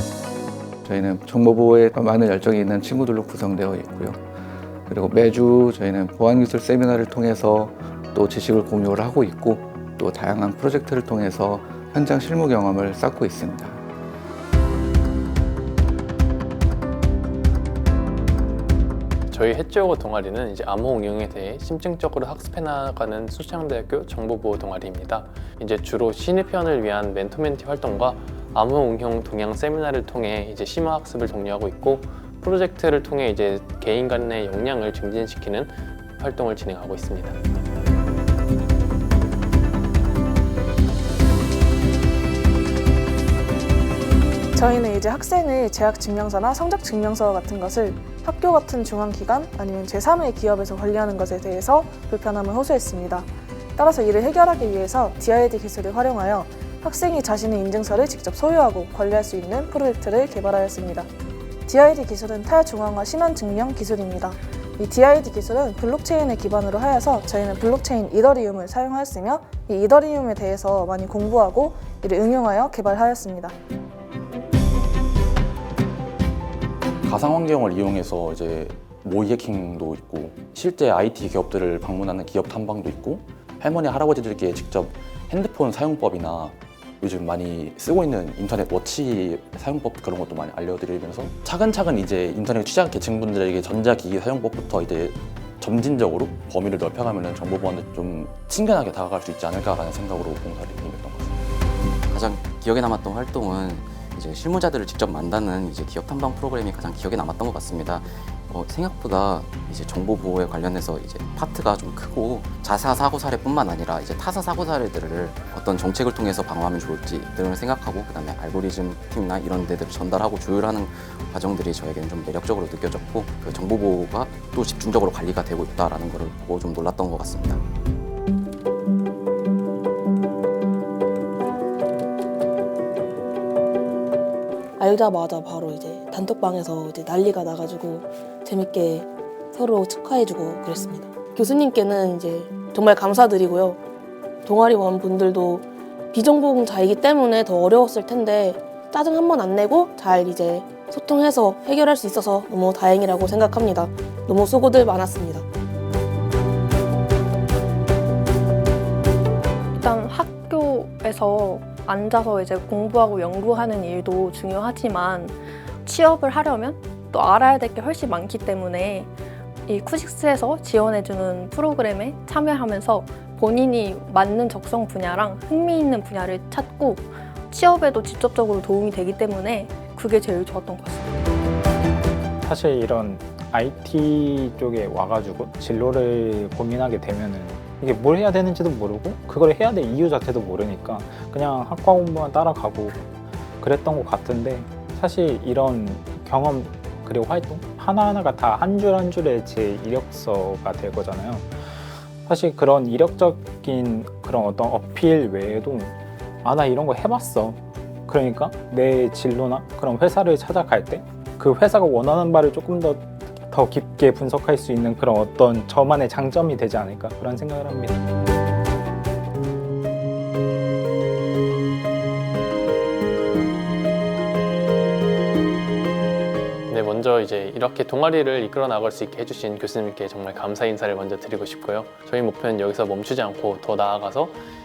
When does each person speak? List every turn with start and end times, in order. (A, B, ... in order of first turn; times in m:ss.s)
0:00.8-0:04.2 A
0:04.9-0:13.8 A
0:19.3-0:37.4 B
0:44.6-1:01.1 C
1:01.7-1:13.6 C
1:17.0-1:41.4 D
1:42.1-2:07.6 E
2:14.8-2:23.8 F
2:24.4-2:35.4 F
2:39.7-2:49.1 G
2:49.7-3:01.0 G
3:02.4-3:21.6 H
3:22.2-3:38.0 H
3:46.7-3:54.4 B